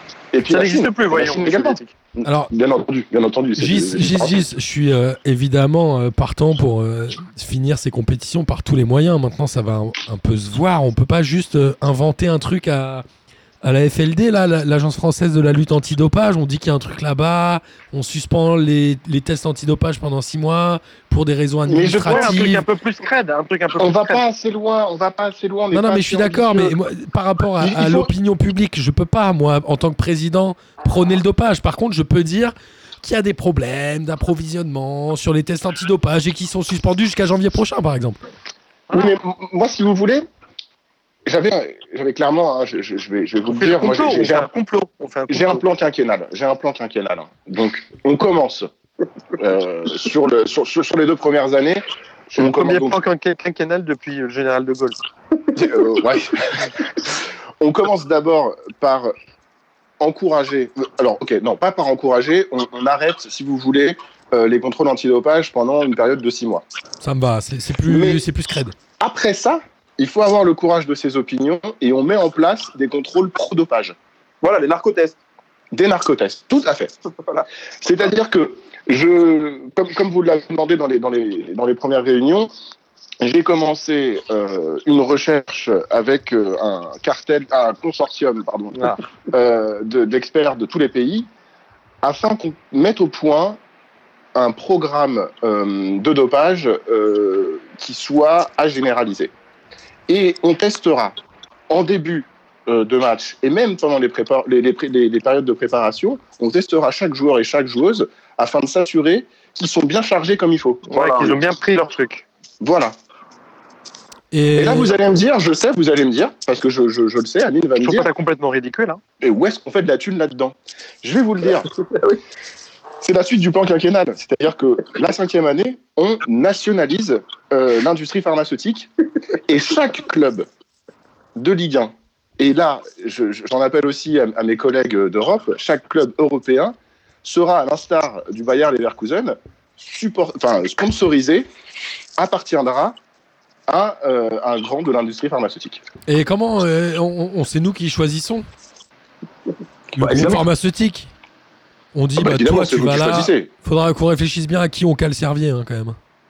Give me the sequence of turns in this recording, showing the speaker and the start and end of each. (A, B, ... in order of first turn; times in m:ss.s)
0:00.3-0:04.4 A
0:00.5-0:01.9 B
0:02.2-0:02.5 C
0:03.6-0:13.0 C
0:13.6-0:22.6 C
0:21.7-0:22.6 A
0:22.1-0:24.2 B
0:23.8-0:26.8 A
0:25.7-0:38.2 C
0:27.6-0:28.1 A
0:38.9-0:39.2 B
0:38.9-0:40.3 A
0:41.3-0:44.5 A
0:43.5-0:45.6 B
0:45.3-0:48.7 A
0:49.4-0:51.8 A
0:52.3-0:55.0 B
0:52.4-0:53.0 A
0:55.6-0:59.1 A
1:00.0-1:06.6 A
1:07.0-1:08.8 C
1:07.8-1:08.2 A
1:09.0-1:14.0 A
1:14.4-1:15.2 D
1:15.7-1:16.9 A
1:17.2-1:17.5 D
1:17.8-1:22.5 A
1:23.2-1:31.3 A
1:28.8-1:29.0 B
1:32.0-1:33.6 A
1:34.4-1:39.3 A
1:40.1-1:41.2 A
1:41.7-1:50.8 A
1:50.9-1:52.2 B
1:50.9-1:51.4 D
1:52.6-1:53.0 A
1:54.3-1:55.0 C
1:54.5-1:58.1 A
1:57.8-1:59.0 B
1:59.2-2:01.7 A
2:01.9-2:02.2 D
2:03.0-2:08.9 A
2:09.5-2:10.5 A
2:11.4-2:21.5 A
2:22.2-2:23.0 A
2:23.7-2:25.8 A
2:26.1-2:28.5 C
2:30.0-2:31.1 C
2:30.0-2:30.4 D
2:30.0-2:30.4 A
2:31.9-2:36.0 C
2:32.2-2:33.5 A